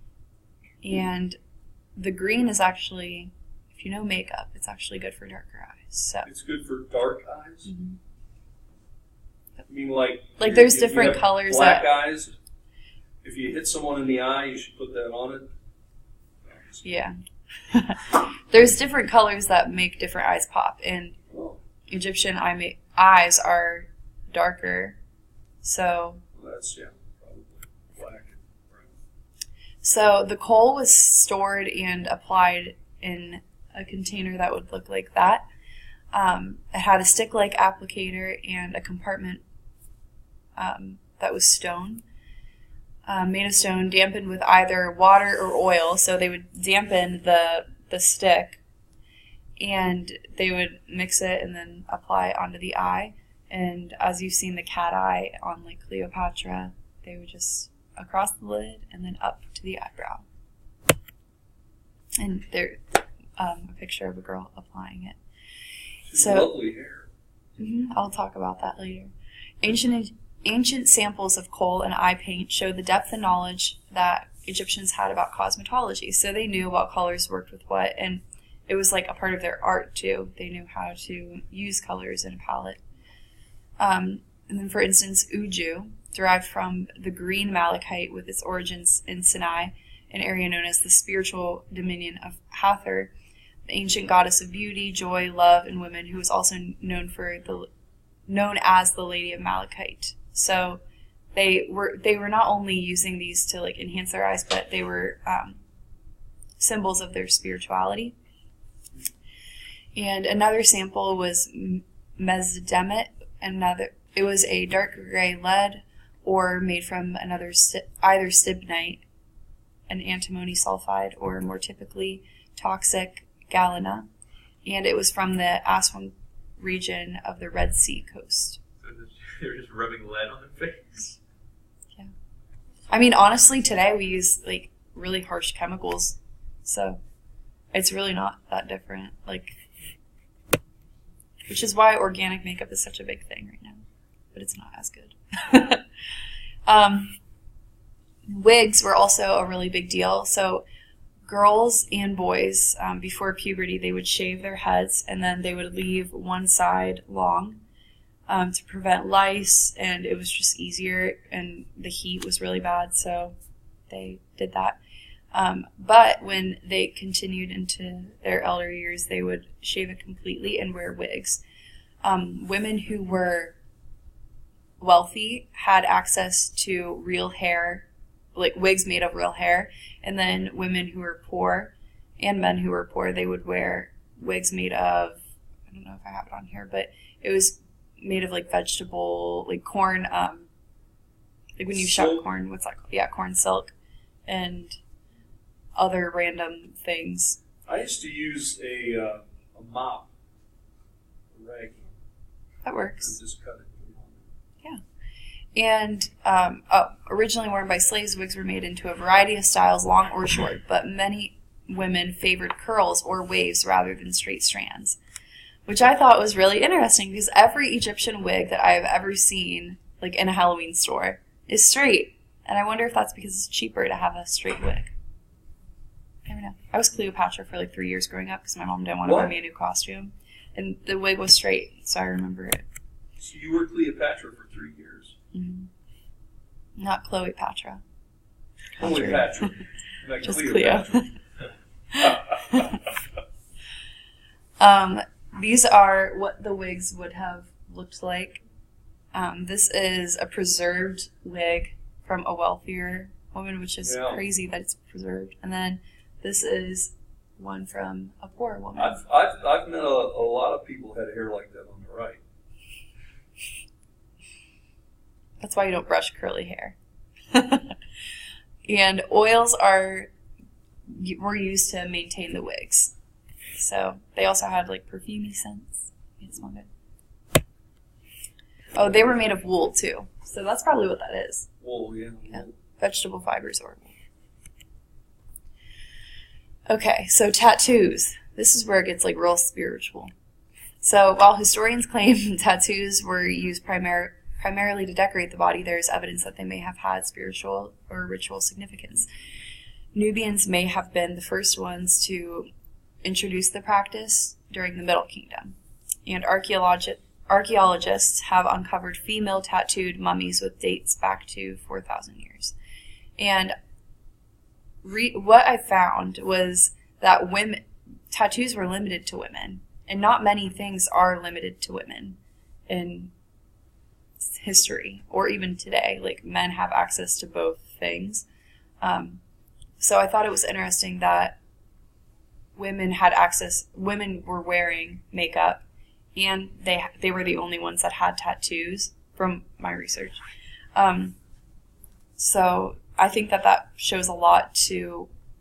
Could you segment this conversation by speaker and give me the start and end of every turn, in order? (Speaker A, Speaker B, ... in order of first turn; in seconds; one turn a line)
Speaker A: 0.8-1.4
Speaker A: 1.9-6.3
Speaker B: 6.2-7.7
Speaker A: 7.7-8.0
Speaker B: 9.7-12.3
Speaker A: 10.4-11.8
Speaker B: 13.2-15.5
Speaker B: 16.4-16.8
Speaker A: 16.8-17.1
Speaker A: 17.7-21.2
Speaker B: 21.3-21.6
Speaker A: 21.9-24.9
Speaker A: 25.6-26.2
Speaker B: 26.3-28.9
Speaker A: 29.8-35.4
Speaker A: 36.1-39.4
Speaker A: 40.5-42.0
Speaker A: 43.0-48.6
Speaker A: 49.6-60.2
Speaker A: 62.2-62.8
Speaker A: 63.4-65.2
Speaker B: 66.1-67.1
Speaker A: 66.1-66.5
Speaker A: 67.6-82.8
Speaker A: 83.8-93.1
Speaker A: 93.7-97.7
Speaker A: 98.3-100.8
Speaker A: 101.3-105.6
Speaker A: 106.6-108.1
Speaker A: 109.9-119.0
Speaker A: 119.9-124.1
Speaker A: 124.6-128.6
Speaker C: 128.8-131.2
Speaker A: 132.9-137.0
Speaker A: 137.7-139.5
Speaker A: 141.5-143.8
Speaker A: 144.3-145.8
Speaker A: 146.7-147.2
Speaker A: 148.3-150.6
Speaker A: 151.2-157.6
Speaker A: 158.3-163.3
Speaker A: 163.9-164.8
Speaker A: 165.3-171.4
Speaker A: 172.0-173.6
Speaker A: 174.8-190.5
Speaker A: 191.6-193.7
Speaker B: 191.7-192.2
Speaker A: 194.3-194.8
Speaker A: 195.8-197.4
Speaker B: 197.7-200.1
Speaker B: 201.3-201.9
Speaker A: 202.6-203.1
Speaker B: 203.0-204.3
Speaker A: 205.5-215.0
Speaker A: 215.7-224.9
Speaker A: 226.2-232.6
Speaker B: 229.0-229.3
Speaker B: 233.2-235.1
Speaker A: 235.3-235.7
Speaker A: 236.8-237.8
Speaker B: 238.8-241.0
Speaker A: 238.8-239.3
Speaker A: 240.2-241.1
Speaker A: 241.9-242.8
Speaker A: 244.6-248.4
Speaker A: 249.1-259.0
Speaker B: 253.8-254.2
Speaker B: 258.8-262.2
Speaker A: 265.4-266.7
Speaker A: 267.3-267.8
Speaker A: 268.6-270.1
Speaker A: 270.9-272.9
Speaker A: 273.6-276.7
Speaker A: 278.7-281.5
Speaker B: 281.6-282.5
Speaker A: 282.3-283.9
Speaker A: 286.7-290.1
Speaker A: 290.8-299.1
Speaker A: 299.9-302.5
Speaker A: 303.0-312.5
Speaker A: 313.2-313.5
Speaker A: 314.8-323.1
Speaker A: 324.2-328.2
Speaker A: 328.8-329.2
Speaker A: 329.8-331.4
Speaker A: 332.6-335.6
Speaker A: 336.1-340.2
Speaker A: 340.7-341.1
Speaker A: 342.2-345.1